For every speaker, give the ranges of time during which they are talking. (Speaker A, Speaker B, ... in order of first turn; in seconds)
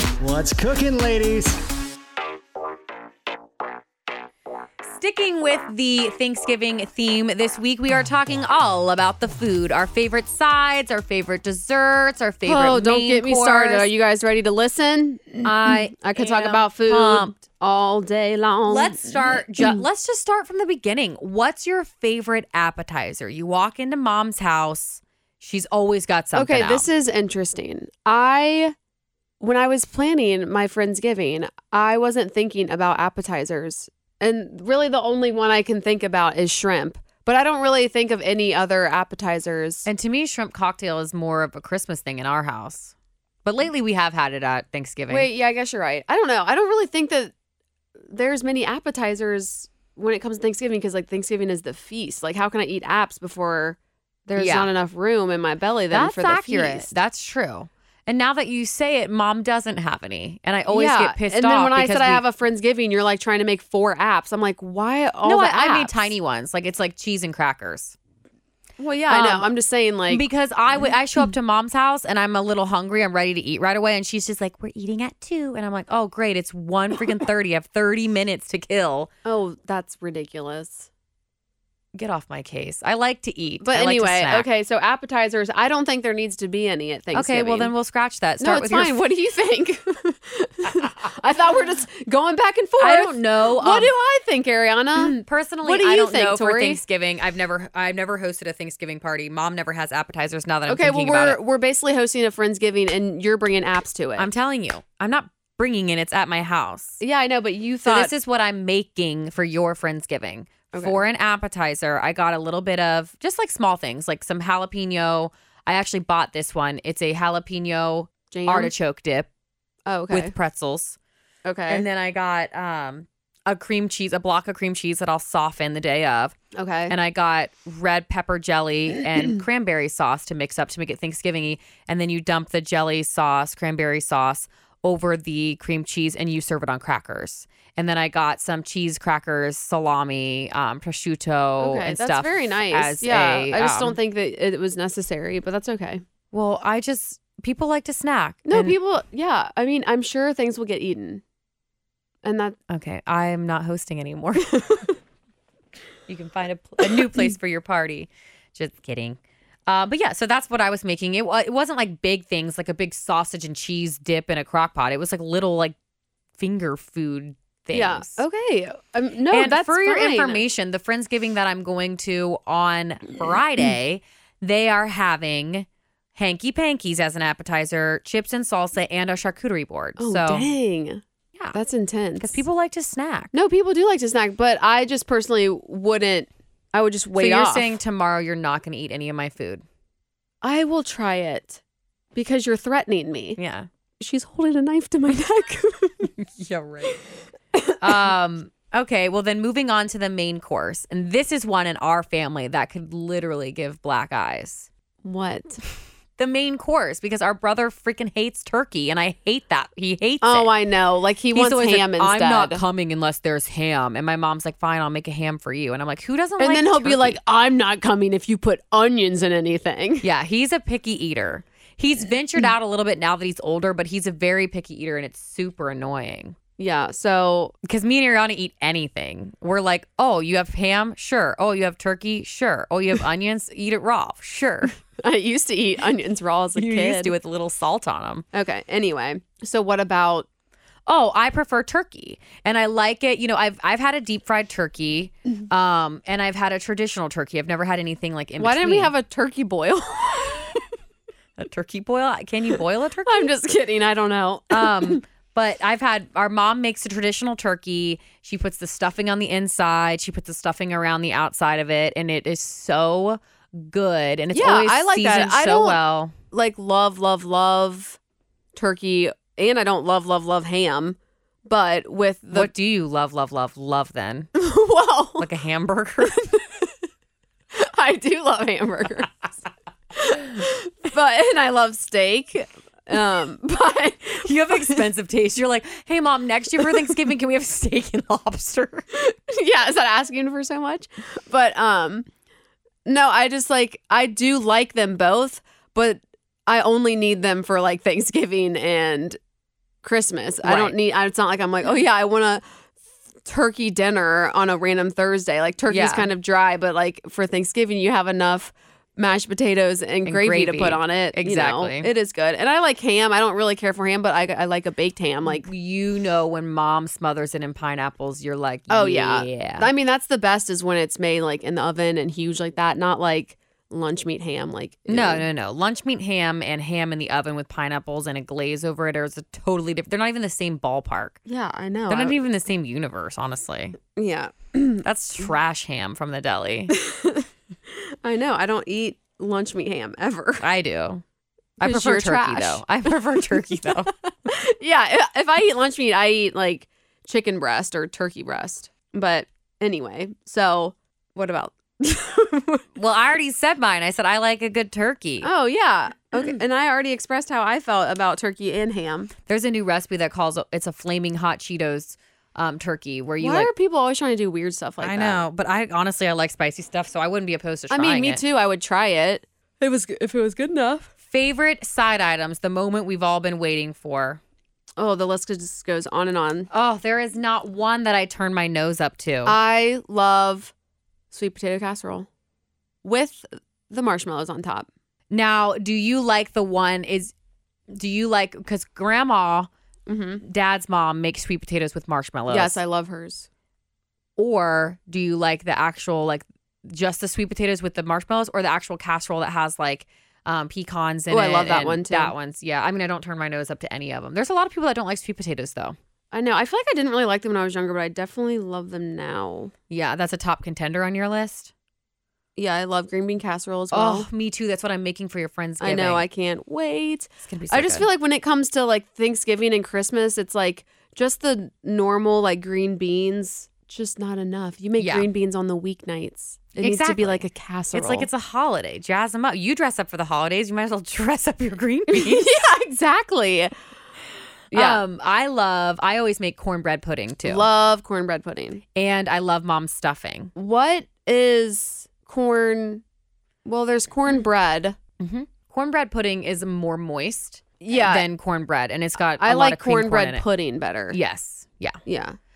Speaker A: 4.8-13.9, 15.4-17.3, 18.7-26.9, 39.9-45.3, 54.4-54.7, 55.9-62.2, 65.2-68.0, 69.1-69.5, 70.1-79.1, 81.9-84.5, 87.1-89.0, 92.8-93.9, 95.0-101.4, 104.2-107.0, 107.9-119.3, 120.1-121.0, 121.7-126.3, 126.9-144.0, 146.3-148.8, 152.7-154.9, 156.1-165.8, 166.4-168.2, 169.3-180.5, 182.2-183.3, 187.2-189.6, 193.4-193.7, 196.2-197.0, 197.8-204.7, 206.2-210.5, 211.3-217.2, 220.0-226.4, 227.6-234.8, 236.6-238.2, 240.9-248.9, 251.4-253.2, 254.5-266.1, 272.3-274.3, 275.2-276.3, 284.2-288.9, 300.4-300.8, 305.7-306.1, 310.1-311.9, 315.3-319.7, 324.9-331.2, 331.9-333.8, 334.8-336.7, 340.4-341.0, 341.6-343.9, 352.8-355.3, 359.3-363.5, 364.8-368.2, 371.0-374.2, 376.5-379.4, 385.1-387.1, 387.7-389.5, 390.2-392.6, 394.2-405.8, 409.7-411.5, 413.7-416.1, 417.2-417.9, 424.8-425.1, 426.6-432.4, 434.5-437.5, 438.7-440.3, 445.0-450.2, 450.9-451.8
Speaker B: 12.4-19.8, 26.4-28.7, 29.4-39.9, 45.1-47.3, 48.1-56.9, 60.7-66.2, 68.8-70.2, 79.2-80.9, 83.6-87.7, 88.4-96.8, 100.7-104.3, 107.0-108.1, 110.7-111.0, 118.3-118.7, 119.9-120.3, 121.5-121.8, 126.5-127.0, 141.6-146.0, 148.4-151.2, 152.2-152.6, 154.6-154.9, 156.9-157.3, 167.7-170.4, 180.0-181.0, 181.5-182.4, 183.3-187.8, 190.4-191.6, 192.2-193.4, 194.0-196.1, 197.6-198.1, 205.0-205.6, 210.2-212.6, 216.4-220.1, 226.6-227.6, 235.0-237.2, 238.3-240.3, 248.4-250.6, 253.0-255.0, 264.3-268.0, 268.6-272.5, 274.4-275.3, 276.1-276.7, 277.5-279.1, 279.9-284.9, 286.6-286.9, 288.9-292.1, 292.9-299.2, 299.8-302.5, 303.2-315.5, 318.7-325.3, 331.3-332.2, 334.0-334.9, 336.7-340.5, 341.6-352.6, 355.2-359.1, 363.2-365.3, 367.7-370.9, 374.8-376.5, 379.2-380.5, 381.1-382.1, 382.8-384.7, 389.9-390.2, 392.3-393.3, 401.1-402.1, 406.1-409.5, 412.4-414.1, 415.6-428.1, 431.9-433.5, 434.5-434.8, 437.2-438.6, 440.4-442.8, 443.4-444.8, 447.6-448.1, 449.2-451.0, 451.9-452.2